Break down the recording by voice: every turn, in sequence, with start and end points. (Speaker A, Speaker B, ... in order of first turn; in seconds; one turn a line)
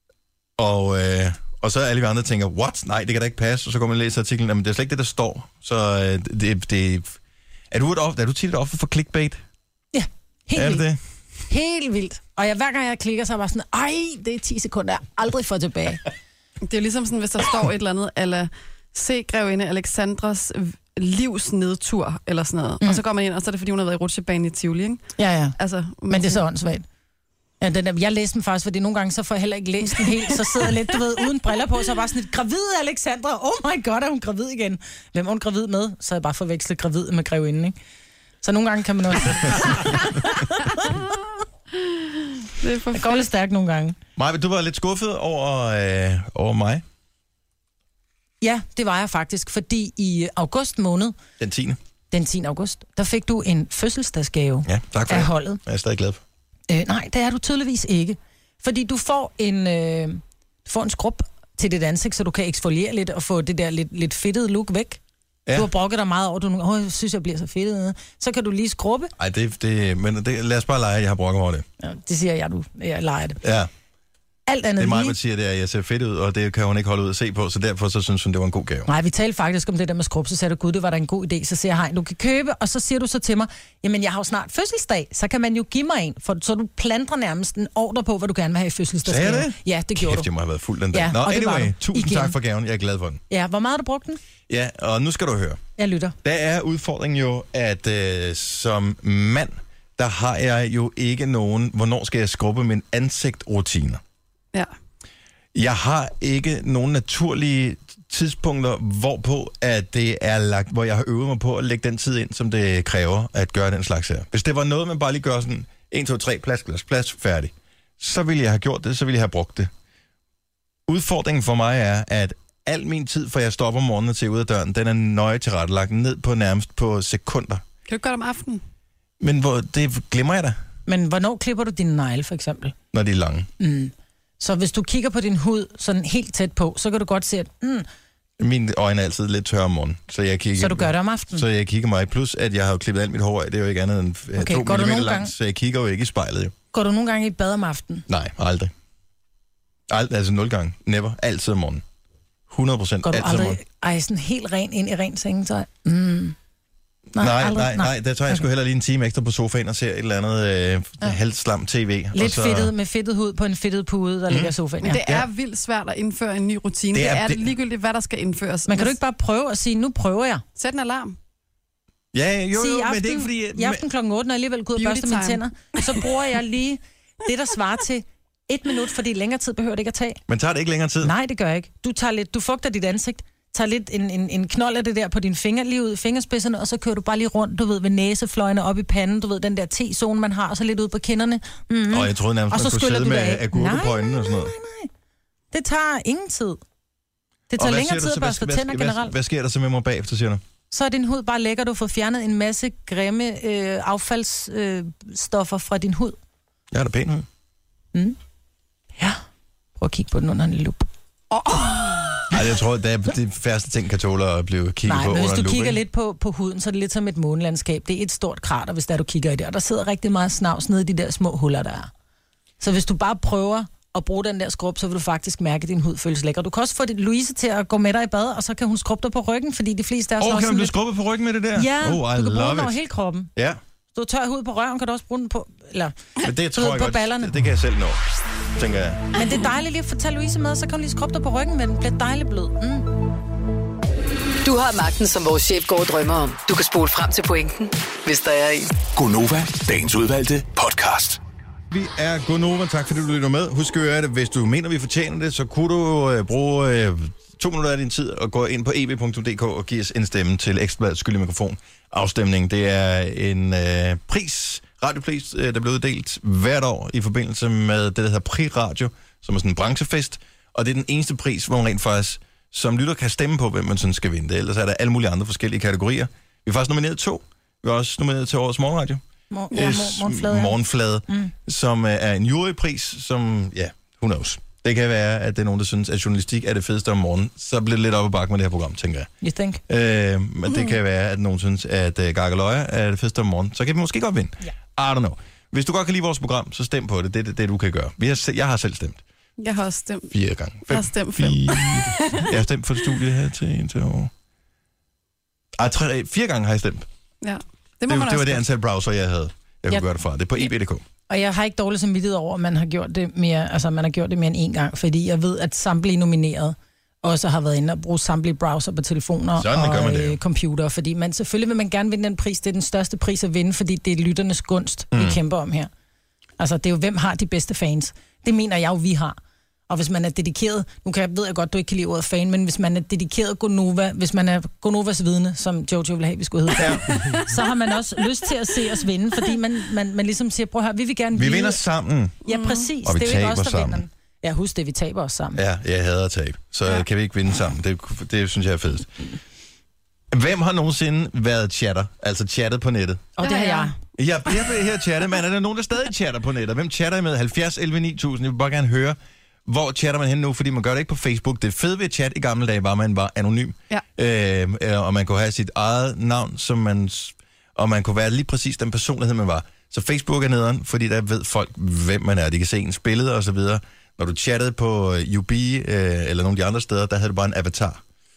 Speaker A: 0.6-7.2
Speaker A: 7.7-9.4
Speaker B: 9.9-10.9
Speaker A: 10.6-11.0
Speaker B: 11.5-16.0
Speaker C: 16.6-25.0
Speaker B: 25.2-25.6
Speaker C: 25.6-26.4
Speaker B: 26.1-26.9
Speaker B: 27.6-37.8
Speaker C: 29.9-30.7
Speaker B: 38.4-41.0
Speaker C: 41.8-43.2
Speaker B: 42.9-44.0
Speaker A: 44.2-46.8
Speaker B: 48.4-51.1
Speaker A: 51.4-51.8
Speaker B: 52.1-55.6
Speaker A: 54.6-56.2
Speaker B: 56.7-65.0
Speaker B: 65.5-69.1
Speaker A: 69.2-71.7
Speaker B: 71.8-73.4
Speaker A: 73.4-73.7
Speaker B: 74.5-75.2
Speaker A: 74.8-78.9
Speaker B: 78.9-90.3
Speaker A: 89.1-93.2
Speaker B: 90.9-92.3
Speaker B: 93.3-94.2
Speaker A: 94.5-95.6
Speaker B: 95.8-96.2
Speaker A: 96.2-104.0
Speaker A: 105.5-119.7
Speaker A: 120.9-127.6
Speaker C: 127.9-128.6
Speaker A: 129.2-130.6
Speaker B: 130.9-132.8
Speaker A: 132.9-133.5
Speaker B: 133.6-137.9
Speaker A: 138.4-146.5
Speaker B: 140.6-141.4
Speaker B: 144.4-145.3
Speaker B: 146.7-148.1
Speaker A: 148.1-148.7
Speaker A: 149.9-151.8
Speaker A: 152.5-153.6
Speaker B: 153.0-156.4
Speaker B: 157.2-158.4
Speaker A: 157.2-162.7
Speaker B: 162.1-165.0
Speaker A: 164.3-165.3
Speaker C: 164.8-169.0
Speaker A: 166.9-167.5
Speaker B: 168.7-170.4
Speaker C: 170.6-171.2
Speaker A: 172.1-173.8
Speaker B: 172.5-180.2
Speaker C: 174.8-175.4
Speaker A: 180.3-181.1
Speaker B: 181.0-194.9
Speaker A: 191.9-194.5
Speaker B: 195.5-196.6
Speaker B: 197.5-199.1
Speaker A: 197.6-200.4
Speaker B: 200.7-206.2
Speaker A: 206.7-207.3
Speaker B: 209.8-210.9
Speaker C: 211.3-212.3
Speaker A: 212.3-215.8
Speaker B: 214.8-221.9
Speaker B: 222.6-230.8
Speaker A: 230.2-232.8
Speaker B: 231.6-233.3
Speaker B: 233.9-237.3
Speaker A: 236.2-238.0
Speaker A: 238.6-239.1
Speaker B: 239.2-242.9
Speaker D: 244.4-248.8
Speaker E: 248.9-251.2
Speaker A: 251.7-289.1
Speaker B: 279.3-281.3
Speaker B: 289.2-289.6
Speaker A: 289.7-299.0
Speaker C: 299.4-300.1
Speaker A: 300.1-304.1
Speaker C: 300.7-302.3
Speaker A: 305.6-306.9
Speaker C: 307.2-308.4
Speaker A: 307.9-310.8
Speaker B: 311.1-325.7
Speaker A: 319.4-320.2
Speaker A: 324.9-325.2
Speaker B: 326.4-329.2
Speaker B: 329.7-341.6
Speaker A: 336.6-337.1
Speaker A: 341.1-342.2
Speaker C: 342.3-342.7
Speaker B: 342.3-345.4
Speaker A: 342.8-343.8
Speaker A: 345.4-349.0
Speaker A: 350.1-353.1
Speaker B: 353.2-353.8
Speaker C: 353.2-353.7
Speaker A: 354.0-377.8